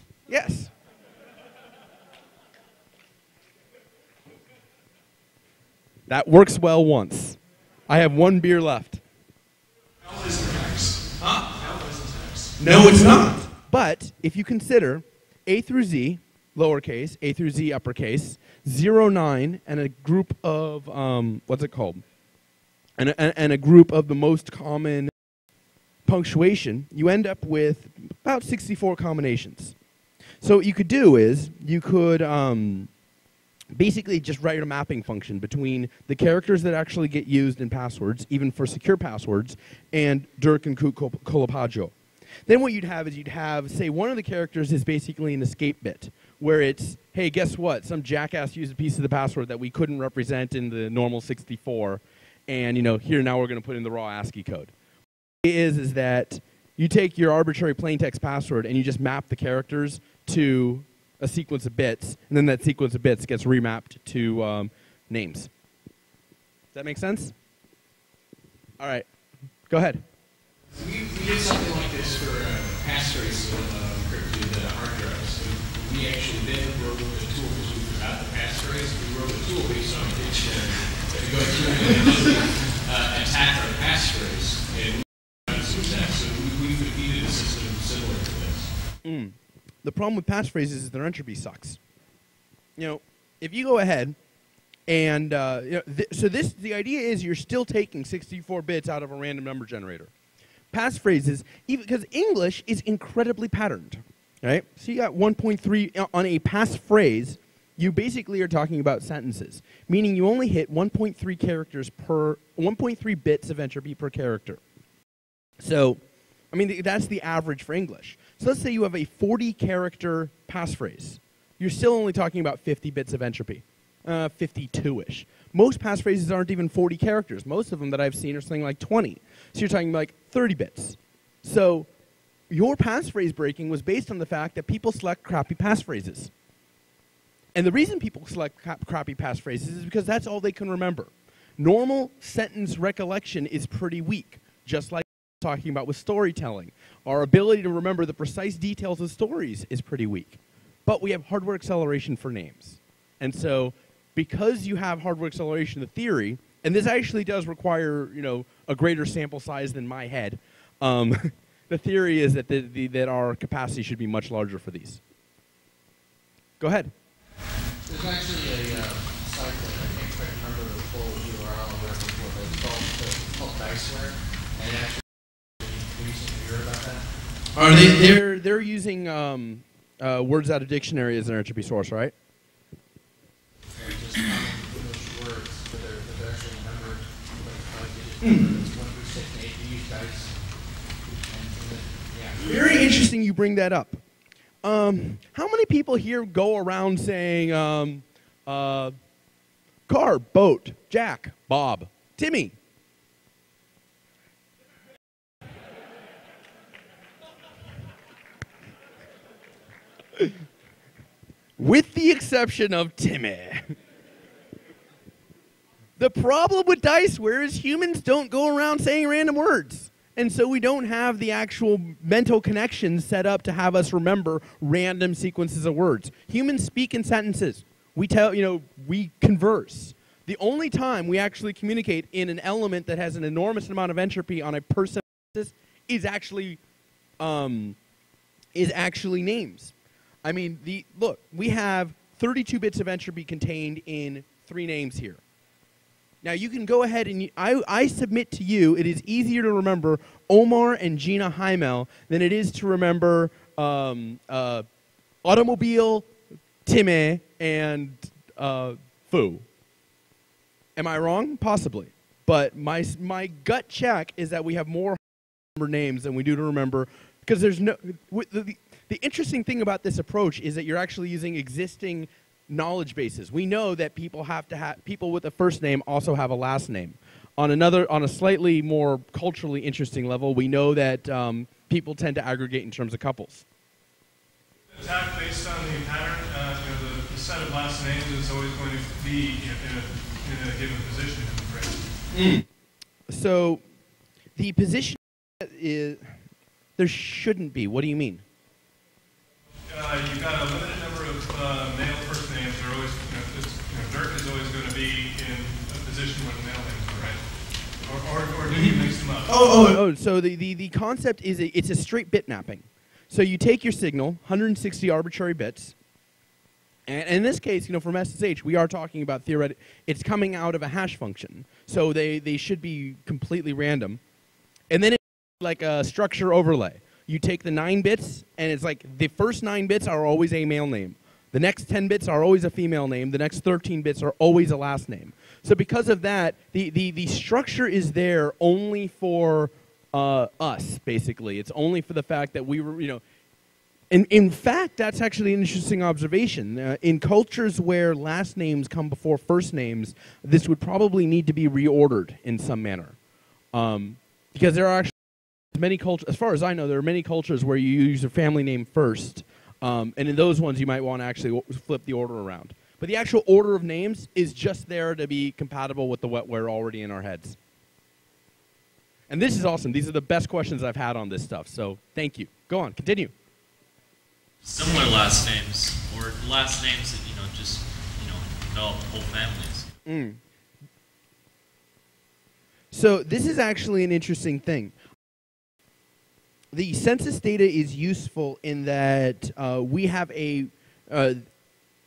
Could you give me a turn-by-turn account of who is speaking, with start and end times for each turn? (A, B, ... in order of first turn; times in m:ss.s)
0:00.3-0:00.7 A
0:06.1-0:09.0 A
0:10.0-0:12.5 B
0:11.2-0:11.5 A
0:12.6-0:22.0 A
0:23.0-0:25.1 A
0:26.0-0:29.7 A
0:30.4-0:32.9 A
0:33.7-0:41.9 A
0:42.5-0:54.7 A
0:55.4-1:05.5 A
1:06.7-1:07.3 A
1:08.8-1:09.0 A
1:09.7-1:10.0 A
1:10.7-1:28.7 C
1:29.0-1:31.8 A
1:32.8-1:34.2 A
1:34.9-1:40.1 A
1:40.7-1:54.6 A
1:55.6-1:56.0 A
1:56.5-2:11.9 A
2:12.5-2:16.3 A
2:17.6-2:45.0 A
2:46.6-2:46.9 A
2:47.9-2:55.0 C
2:55.6-2:57.0 C
2:57.6-3:02.1 A
3:03.7-3:10.4 C
3:08.2-3:08.5 A
3:11.2-3:12.5 C
3:12.4-3:14.0 A
3:14.6-3:19.0 A
3:19.9-3:22.6 A
3:31.6-3:33.7 A
3:36.0-3:56.6 A
3:57.2-3:57.8 A
3:58.6-3:59.7 A
4:00.2-4:05.2 A
4:06.2-4:14.7 A
4:15.2-4:16.1 A
4:16.6-4:19.4 A
4:20.8-4:25.0 A
4:25.6-4:43.4 A
4:44.8-4:51.9 B
4:52.1-4:52.5 A
4:53.1-4:53.6 A
4:54.4-4:56.2 A
4:56.8-4:58.2 A
4:59.7-5:07.2 B
5:07.8-5:09.3 B
5:08.5-5:15.7 A
5:16.9-5:24.0 A
5:24.7-5:43.0 A
5:43.9-5:53.0 A
5:53.5-5:54.9 A
5:55.5-6:07.4 A
6:09.1-6:13.1 A
6:14.4-6:19.7 D
6:19.9-6:20.2 A
6:22.7-6:24.7 A
6:26.5-6:31.2 A